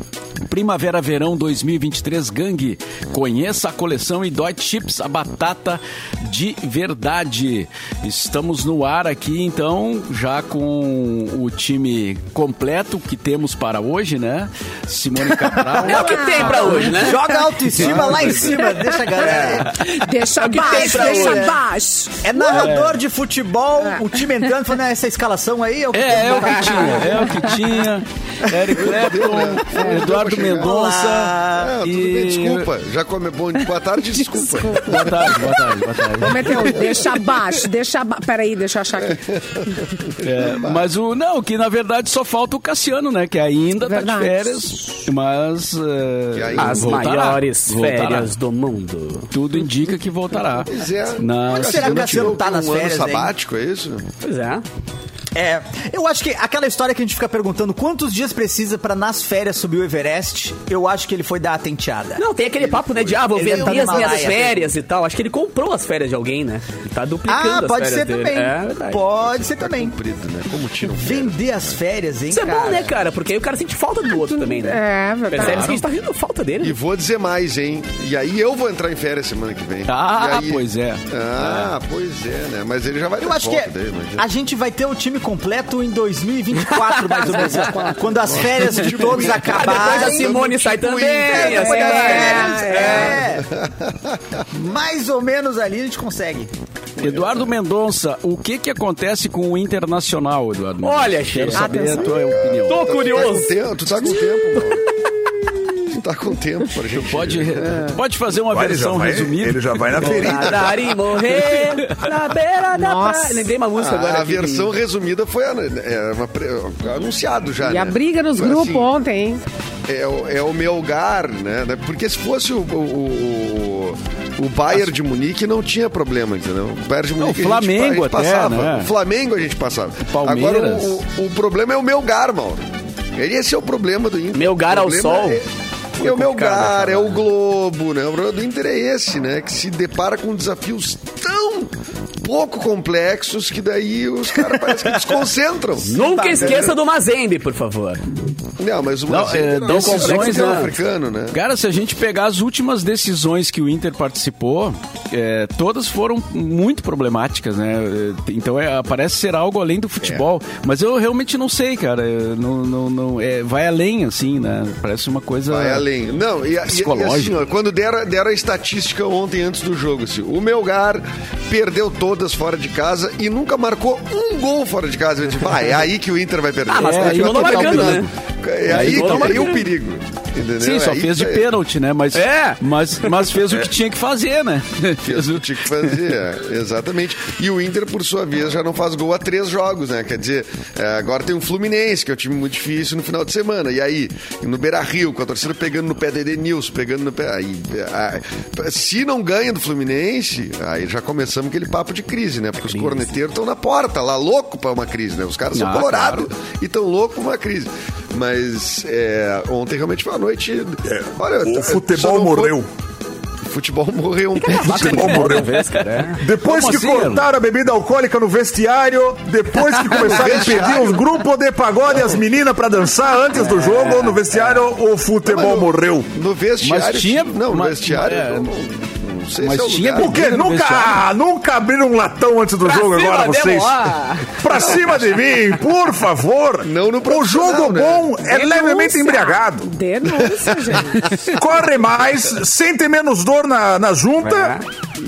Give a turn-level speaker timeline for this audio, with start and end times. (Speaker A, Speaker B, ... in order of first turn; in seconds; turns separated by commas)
Speaker A: 0.5-17.1, Speaker B: 15.4-19.8, Speaker C: 15.8-17.2, Speaker D: 15.8-17.4, Speaker A: 17.7-18.7, Speaker E: 17.7-18.5, Speaker D: 18.4-22.7, Speaker C: 19.2-19.7, Speaker C: 20.4-21.6, Speaker B: 20.5-21.6, Speaker B: 22.2-27.4, Speaker A: 22.5-23.0, Speaker A: 25.9-32.7, Speaker D: 27.0-27.6, Speaker E: 28.8-30.8, Speaker B: 30.6-31.8, Speaker E: 31.5-35.5, Speaker D: 34.2-39.2, Speaker A: 34.8-36.9, Speaker E: 39.0-40.8, Speaker A: 40.2-48.3, Speaker D: 43.7-45.1, Speaker E: 46.3-47.1, Speaker C: 46.6-49.3, Speaker A: 49.3-52.4, Speaker E: 50.7-54.0, Speaker B: 51.5-53.3, Speaker C: 54.2-54.6, Speaker B: 55.3-62.2, Speaker C: 62.2-69.0, Speaker E: 62.6-64.7, Speaker B: 63.4-64.6, Speaker B: 67.3-70.0, Speaker E: 69.1-71.8, Speaker B: 70.8-72.9, Speaker C: 72.3-76.8, Speaker D: 74.1-75.7, Speaker A: 75.4-75.8, Speaker E: 76.6-84.2, Speaker A: 79.9-81.7, Speaker B: 83.2-93.5, Speaker C: 86.7-87.9, Speaker E: 88.1-92.1, Speaker C: 89.0-93.2, Speaker D: 91.4-93.2, Speaker E: 92.9-94.4, Speaker B: 94.5-96.5, Speaker E: 97.0-97.5, Speaker A: 97.0-103.2, Speaker C: 100.8-101.9, Speaker D: 101.5-102.2, Speaker E: 101.9-104.9, Speaker C: 102.7-105.8, Speaker D: 104.3-104.7, Speaker E: 105.8-107.9, Speaker A: 106.9-110.4, Speaker F: 108.5-110.8, Speaker C: 110.0-114.7, Speaker E: 110.5-110.7, Speaker A: 111.4-112.1, Speaker D: 112.7-113.5, Speaker E: 113.8-118.9, Speaker D: 117.6-119.4, Speaker E: 119.9-146.7, Speaker A: 127.2-128.9, Speaker A: 130.0-131.0, Speaker C: 134.3-135.4, Speaker C: 136.0-137.3, Speaker C: 145.8-148.0, Speaker B: 145.9-146.8, Speaker E: 148.6-151.4, Speaker A: 149.1-150.8, Speaker C: 149.7-150.8, Speaker A: 151.3-165.9, Speaker E: 165.5-181.5, Speaker A: 166.7-167.4, Speaker C: 176.7-178.1, Speaker A: 176.8-178.1, Speaker C: 178.7-179.7, Speaker A: 178.7-179.6, Speaker A: 180.6-186.0, Speaker C: 182.1-183.3, Speaker E: 185.0-212.6, Speaker C: 202.6-203.1, Speaker A: 205.5-206.3, Speaker F: 210.9-212.7, Speaker E: 213.4-215.2, Speaker C: 214.4-216.2, Speaker F: 214.5-215.5, Speaker A: 214.9-217.3, Speaker F: 216.2-226.1, Speaker C: 219.9-220.2, Speaker E: 219.9-221.1, Speaker A: 223.4-224.1, Speaker E: 225.3-230.2, Speaker A: 226.6-228.5, Speaker A: 229.4-231.0, Speaker F: 230.0-233.8, Speaker C: 232.7-234.7, Speaker F: 234.4-239.7, Speaker E: 234.5-235.3, Speaker E: 236.6-238.2, Speaker D: 238.2-241.1, Speaker E: 240.1-241.3, Speaker F: 241.2-244.6, Speaker C: 244.2-244.6